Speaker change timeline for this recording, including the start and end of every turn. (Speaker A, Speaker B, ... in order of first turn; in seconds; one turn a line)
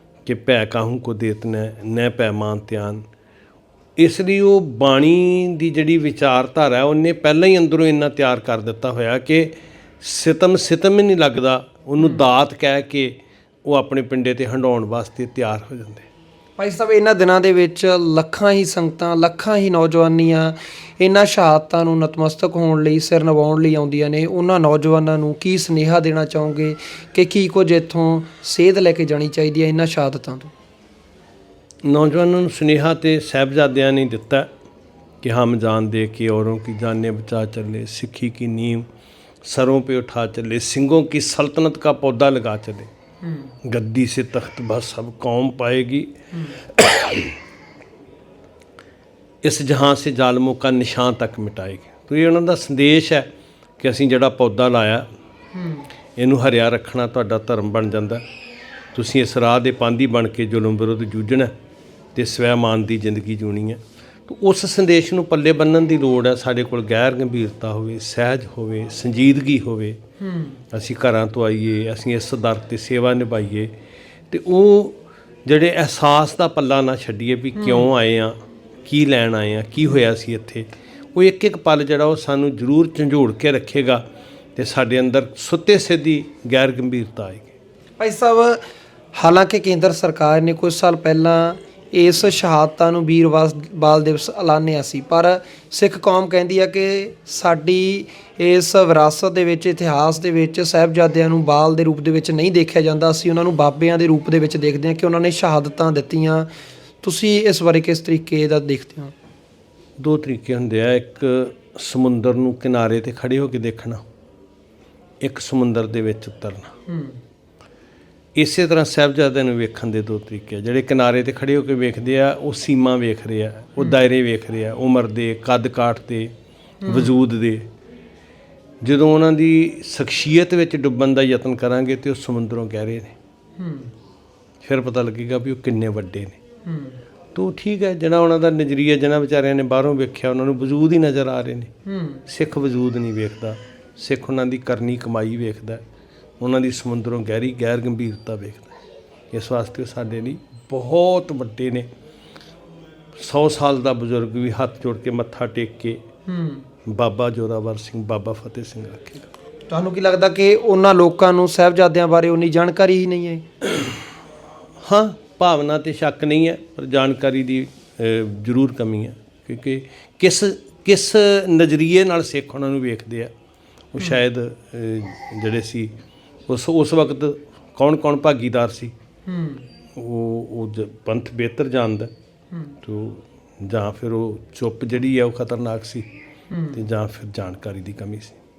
Speaker A: 0.2-3.0
Speaker A: 4.0-16.1
Speaker B: 16.6-30.5
Speaker A: 31.8-34.5
Speaker A: 35.2-38.9
Speaker A: 39.4-42.9
Speaker A: 43.6-47.4
Speaker A: 49.4-55.0
Speaker B: 55.5-55.8
Speaker A: 56.1-58.2
Speaker A: 58.9-61.5
Speaker A: 62.1-70.0
Speaker B: 70.2-70.6
Speaker A: 70.7-73.7
Speaker A: 74.3-84.0
Speaker B: 77.5-77.9
Speaker A: 84.5-87.5
Speaker B: 88.0-88.6
Speaker B: 89.2-106.5
Speaker B: 107.0-109.1
Speaker A: 110.0-114.0
Speaker A: 115.2-116.8
Speaker B: 116.9-117.2
Speaker A: 118.3-126.3
Speaker B: 126.8-127.1
Speaker A: 126.8-127.7
Speaker A: 128.8-133.2
Speaker B: 133.6-133.9
Speaker A: 134.6-136.4
Speaker B: 136.7-137.0
Speaker A: 137.3-141.7
Speaker B: 141.9-142.2
Speaker A: 142.2-145.8
Speaker A: 146.4-148.8
Speaker A: 149.3-151.9
Speaker A: 153.2-156.0
Speaker B: 156.3-156.7
Speaker A: 156.8-159.3
Speaker B: 159.7-163.4
Speaker A: 164.8-173.3
Speaker A: 173.9-175.9
Speaker A: 176.5-178.9
Speaker B: 179.3-179.6
Speaker A: 179.9-182.1
Speaker A: 182.8-186.1
Speaker B: 186.5-186.8
Speaker A: 186.7-188.4